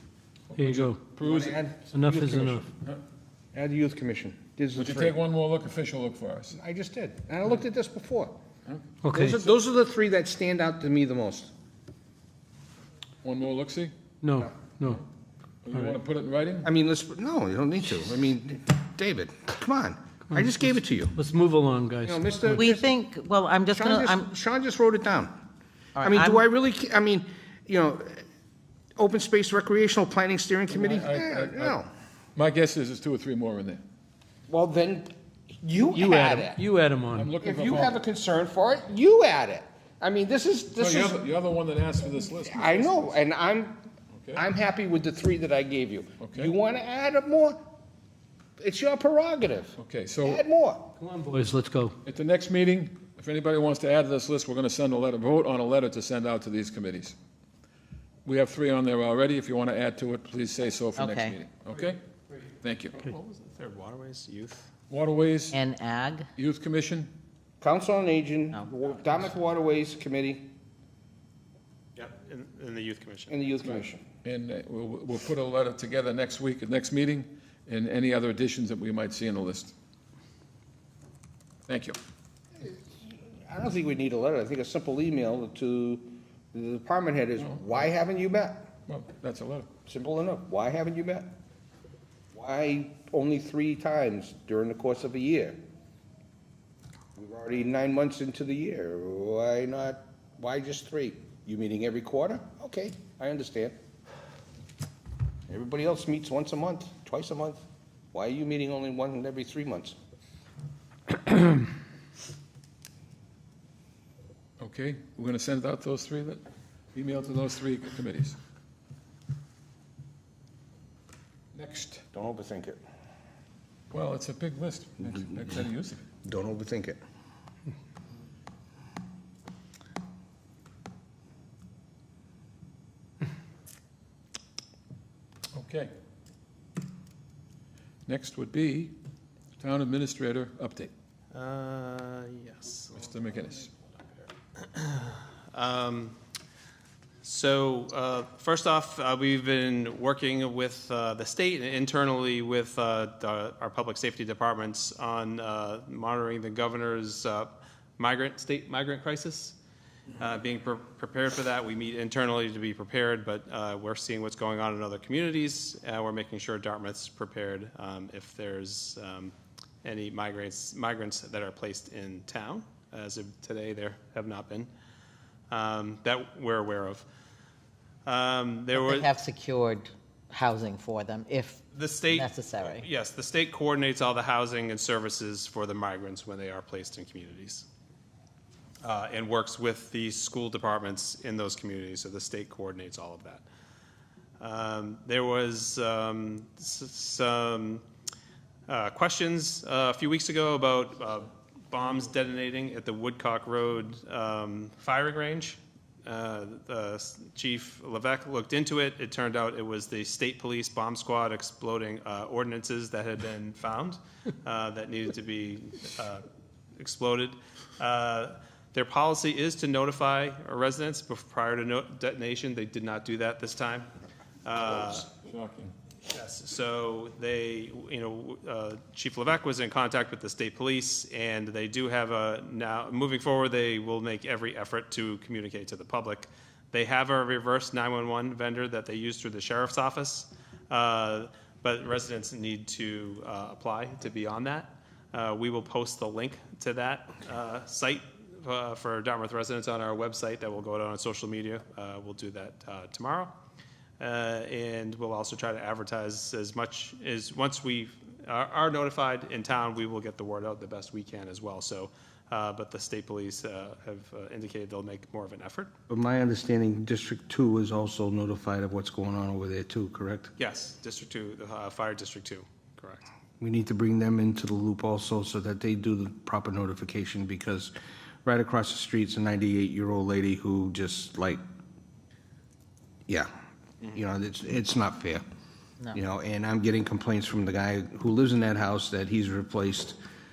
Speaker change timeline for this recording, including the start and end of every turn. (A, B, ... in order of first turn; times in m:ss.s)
0:00.5-0:01.6 A
0:00.6-0:01.0 B
0:01.2-0:02.6 C
0:01.9-0:02.7 B
0:03.5-0:05.2 C
0:04.8-0:06.6 A
0:06.5-0:08.4 C
0:08.7-0:08.9 A
0:09.0-0:09.4 B
0:09.1-0:11.5 C
0:13.2-0:13.9 A
0:14.2-0:15.0 B
0:15.6-0:16.7 A
0:16.6-0:21.2 C
0:21.2-0:22.6 B
0:22.0-0:22.9 C
0:22.5-0:24.3 D
0:23.7-0:25.4 C
0:26.0-0:26.4 D
0:26.0-0:28.2 C
0:29.0-0:31.9 C
0:30.7-0:31.8 A
0:32.4-0:33.8 A
0:34.5-0:36.6 C
0:35.9-0:37.3 B
0:37.1-0:38.0 A
0:37.4-0:41.2 C
0:40.8-0:43.2 A
0:42.3-0:43.8 C
0:44.2-0:44.4 A
0:44.4-0:47.6 C
0:46.2-0:46.5 A
0:48.6-0:50.9 C
0:49.8-0:50.4 A
0:51.0-0:52.0 B
0:52.0-0:57.2 A
0:58.3-1:02.0 A
1:01.0-1:01.4 D
1:02.6-1:03.0 A
1:02.9-1:04.7 E
1:04.9-1:05.6 A
1:05.5-1:06.3 D
1:06.4-1:07.1 A
1:07.6-1:10.5 C
1:12.0-1:13.3 E
1:13.3-1:14.0 C
1:13.6-1:19.7 A
1:21.7-1:22.0 A
1:22.6-1:28.7 C
1:27.4-1:27.9 A
1:28.9-1:29.7 A
1:29.9-1:31.3 C
1:32.3-1:35.6 C
1:37.2-1:43.8 C
1:45.5-1:50.0 C
1:54.6-1:56.4 A
1:56.9-1:58.4 A
2:01.5-2:02.0 A
2:02.1-2:02.8 C
2:03.9-2:06.1 A
2:06.2-2:07.0 C
2:15.5-2:15.9 A
2:18.1-2:19.0 A
2:19.6-2:20.9 A
2:21.3-2:23.0 E
2:22.9-2:23.7 A
2:24.6-2:26.2 E
2:27.2-2:39.6 E
2:40.2-2:49.3 E
2:49.8-2:54.7 E
2:55.5-2:57.1 E
2:58.1-2:59.1 E
2:58.7-3:02.9 D
3:01.7-3:07.7 E
3:08.8-3:13.4 E
3:14.4-3:17.8 E
3:18.7-3:36.2 E
3:36.8-3:43.9 E
3:44.4-3:45.1 E
3:45.2-3:45.7 A
3:46.1-4:13.3 E
4:14.0-4:25.7 E
4:25.9-4:30.3 C
4:30.4-4:33.0 E
4:33.4-4:37.7 C
4:38.2-4:41.4 C
4:43.9-4:45.2 C
4:45.9-4:50.0 C